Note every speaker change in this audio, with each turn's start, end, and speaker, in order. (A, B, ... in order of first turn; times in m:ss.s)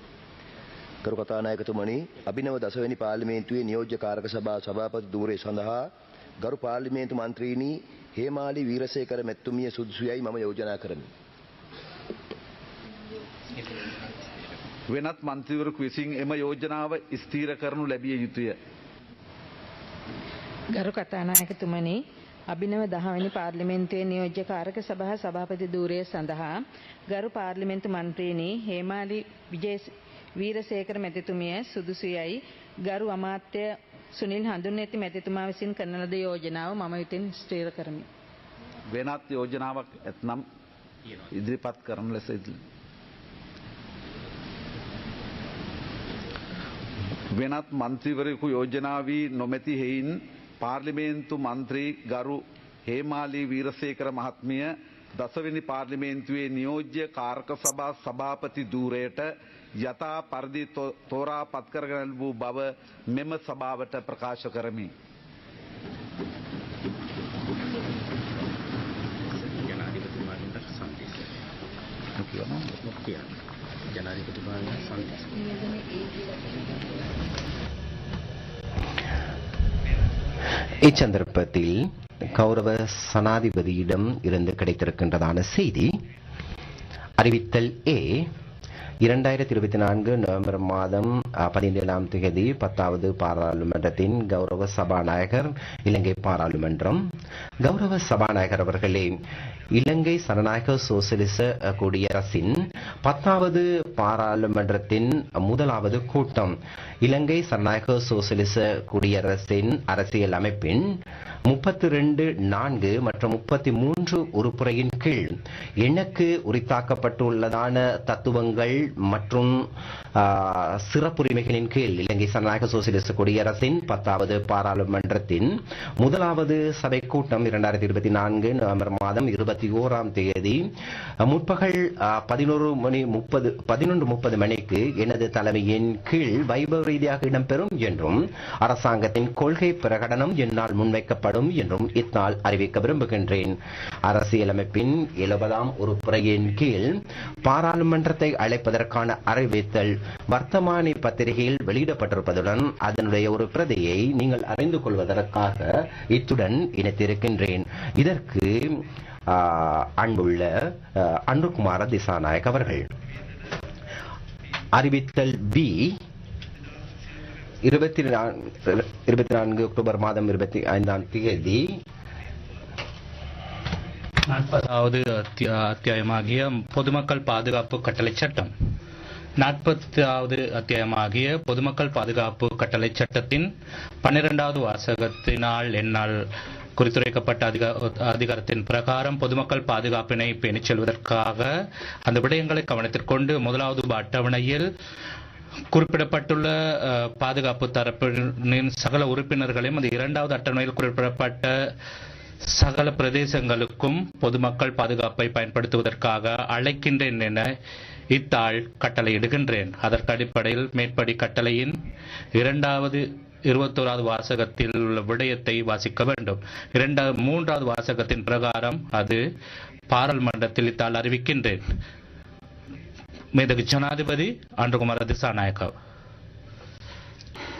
0:01.0-0:05.9 A
0:06.4-0:11.1 A
0:14.9-0:18.6 B
0:20.7-0:26.5 C
0:27.1-0:38.1 C
0:38.9-0:40.4 B
0:41.3-0:42.6 B
0:47.3-1:04.9 B
1:09.4-1:11.2 D
1:12.2-1:12.7 B
1:12.8-1:13.3 D
1:13.9-1:15.2 D
1:20.8-1:25.9 E
1:27.2-1:28.3 E
1:29.0-1:37.0 E
1:37.6-1:39.1 E
1:39.8-1:50.8 E
1:51.5-1:59.5 E
2:00.2-2:05.5 E
2:06.0-2:10.6 E
2:11.3-2:23.6 E
2:24.1-2:42.9 E
2:44.8-2:46.0 E
2:47.7-2:51.6 E
2:54.3-2:58.5 F
2:59.4-3:03.5 F
3:04.0-3:06.2 F
3:06.8-3:11.5 F
3:12.1-3:14.7 F
3:15.7-3:21.5 F
3:22.6-3:27.5 F
3:28.1-3:31.8 F
3:32.4-3:39.2 F
3:39.9-3:41.6 F
3:43.3-3:45.7 F